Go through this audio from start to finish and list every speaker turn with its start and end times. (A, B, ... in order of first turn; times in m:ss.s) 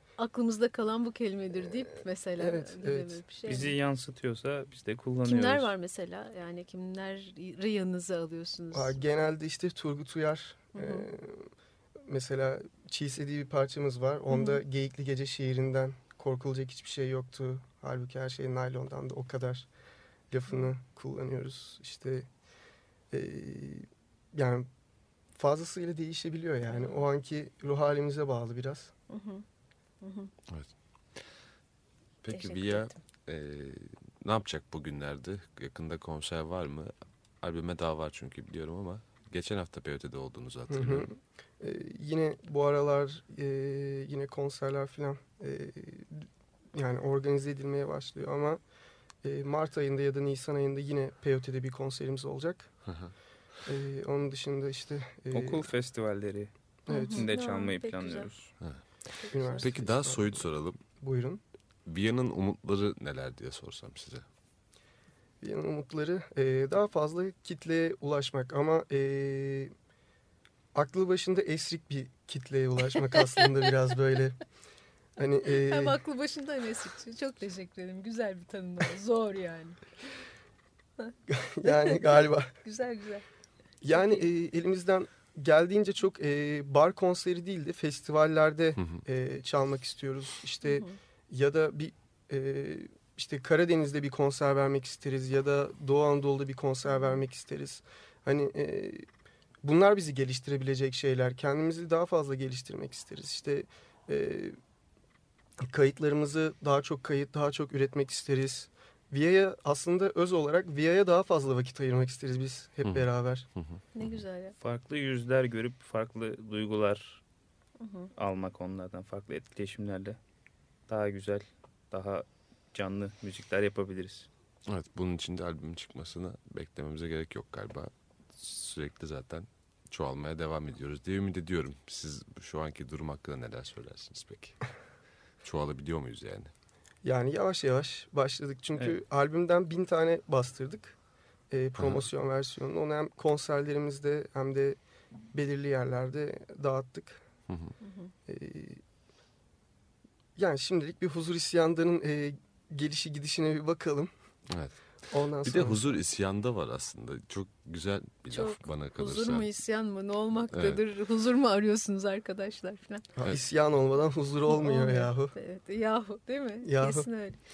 0:00.2-0:03.7 A
0:02.4-0:03.6 B
0:03.4-0:05.7 C
0:05.2-0:09.0 A
0:08.7-0:11.5 B
0:10.7-0:11.1 A
0:12.0-0:19.7 B
0:14.3-0:14.6 A
0:20.3-0:22.3 B
0:23.1-0:24.7 B
0:25.3-0:28.9 B
0:26.7-0:27.0 A
0:29.1-0:29.4 A
0:30.0-0:30.3 A
0:30.5-0:31.2 D
0:32.2-0:41.1 D
0:32.3-0:33.0 A
0:40.7-0:48.6 B
0:49.2-0:52.7 B
0:52.8-0:53.1 D
0:53.6-0:55.7 B
0:55.3-0:56.5 C
0:56.9-0:57.3 B
0:56.9-0:58.3 A
0:57.1-0:58.5 C
0:59.1-0:59.7 A
0:59.3-1:00.4 B
0:59.5-1:00.8 D
1:01.0-1:01.4 B
1:01.8-1:04.2 D
1:05.4-1:09.7 B
1:10.7-1:14.4 B
1:13.0-1:13.4 A
1:15.2-1:16.0 B
1:15.4-1:19.8 A
1:21.3-1:22.5 B
1:21.6-1:23.2 A
1:23.8-1:39.1 B
1:23.9-1:24.2 A
1:30.6-1:31.0 A
1:39.6-1:44.6 B
1:45.6-1:53.5 B
1:52.8-1:54.2 D
1:53.9-1:54.5 A
1:54.6-1:57.2 C
1:57.8-1:58.1 A
1:58.1-2:00.2 C
2:00.9-2:04.3 C
2:04.7-2:14.6 D
2:15.4-2:16.5 D
2:17.0-2:21.0 B
2:21.5-2:24.8 B
2:21.8-2:22.0 D
2:25.3-2:27.2 B
2:27.5-2:27.7 D
2:27.8-2:28.1 A
2:28.3-2:28.8 B
2:30.4-2:34.1 B
2:34.5-2:39.5 D
2:35.1-2:35.8 B
2:38.3-2:43.1 A
2:40.5-2:40.8 D
2:43.2-2:45.3 B
2:44.5-2:47.4 A
2:46.6-2:47.1 B